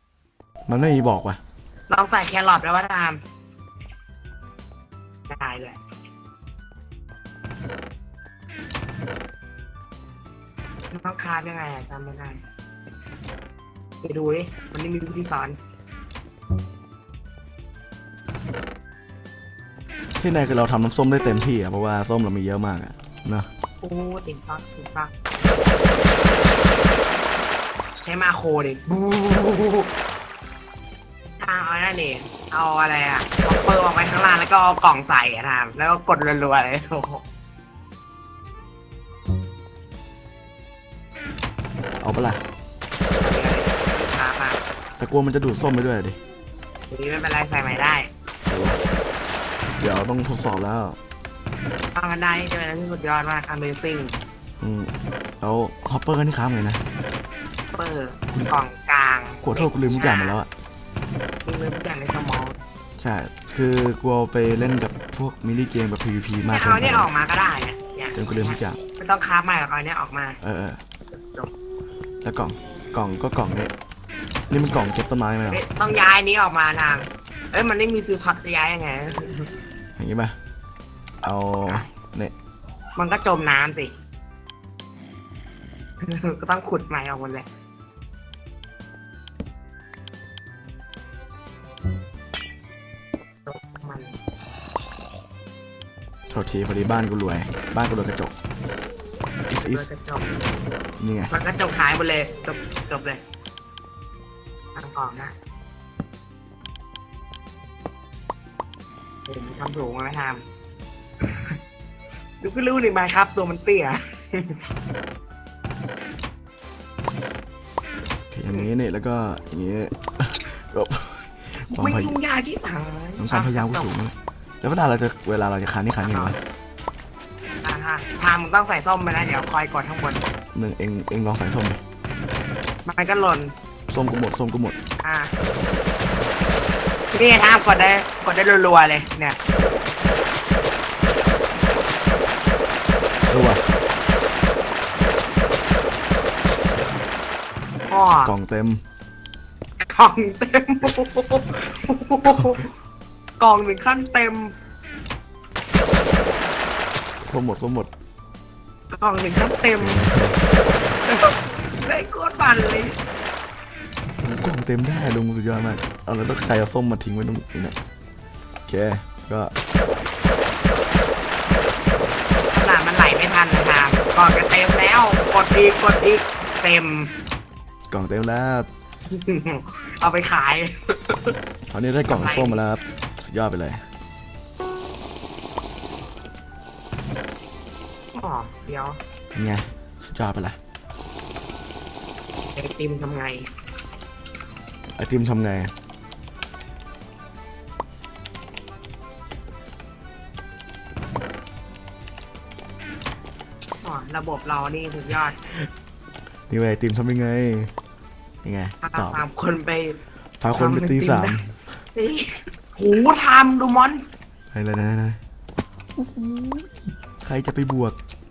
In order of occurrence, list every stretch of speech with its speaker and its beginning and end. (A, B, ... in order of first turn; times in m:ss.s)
0:00.7-0:01.4 A
0:01.9-0:03.2 B
0:05.3-0:05.8 B
0:10.9-0:12.4 B
0:14.0-0:15.6 B
0:20.2-0:23.5 A
0:23.8-0:25.1 B
0:28.0-0:29.9 B
0:31.4-0:37.2 B
0:42.0-0:42.4 A
0:43.2-0:44.6 B
0:45.0-0:46.2 A
0:46.9-0:48.1 B
0:48.4-0:48.8 A
0:49.8-0:51.0 A
0:51.9-0:54.1 B
0:54.6-0:56.8 A
0:57.7-1:00.4 B
0:59.4-1:00.5 A
1:01.4-1:02.6 B
1:03.0-1:07.1 A
1:06.5-1:10.4 B
1:08.1-1:08.8 A
1:10.4-1:10.8 A
1:11.1-1:11.5 B
1:12.2-1:13.7 A
1:14.5-1:15.6 A
1:15.5-1:19.6 B
1:20.0-1:20.4 A
1:21.2-1:22.3 A
1:23.0-1:23.9 B
1:26.0-1:27.5 B
1:33.4-1:34.2 B
1:36.3-1:38.3 A
1:39.5-1:39.9 A
1:39.5-1:40.3 B
1:41.0-1:41.3 A
1:41.3-1:43.2 B
1:44.8-1:45.3 B
1:49.3-1:50.4 B
1:51.2-1:51.6 B
1:52.4-1:54.6 B
1:58.3-2:02.2 A
2:01.7-2:03.9 B
2:03.2-2:06.4 A
2:06.1-2:06.4 B
2:07.6-2:10.2 B
2:10.5-2:11.8 A
2:12.8-2:13.5 B
2:13.9-2:14.8 A
2:15.0-2:15.3 B
2:17.1-2:19.4 B
2:23.3-2:23.6 A
2:27.9-2:28.3 B
2:28.2-2:28.8 A
2:29.8-2:32.7 B
2:33.4-2:34.5 B
2:37.2-2:37.9 A
2:38.9-2:40.1 B
2:39.8-2:40.4 A
2:41.0-2:43.0 B
2:44.2-2:47.8 A
2:48.7-2:49.5 A
2:52.4-2:57.1 B
2:57.9-2:58.7 A
2:59.1-3:01.4 B
3:01.7-3:03.8 A
3:02.1-3:02.6 B
3:08.1-3:09.0 B
3:09.3-3:10.6 A
3:12.6-3:13.5 B
3:15.0-3:15.7 A
3:23.8-3:25.4 B
3:25.1-3:25.7 A
3:26.5-3:27.7 A
3:28.4-3:29.2 A
3:28.8-3:30.0 B
3:30.4-3:31.8 A
3:30.5-3:31.4 B
3:31.9-3:34.0 B
3:34.5-3:35.2 A
3:36.0-3:38.0 A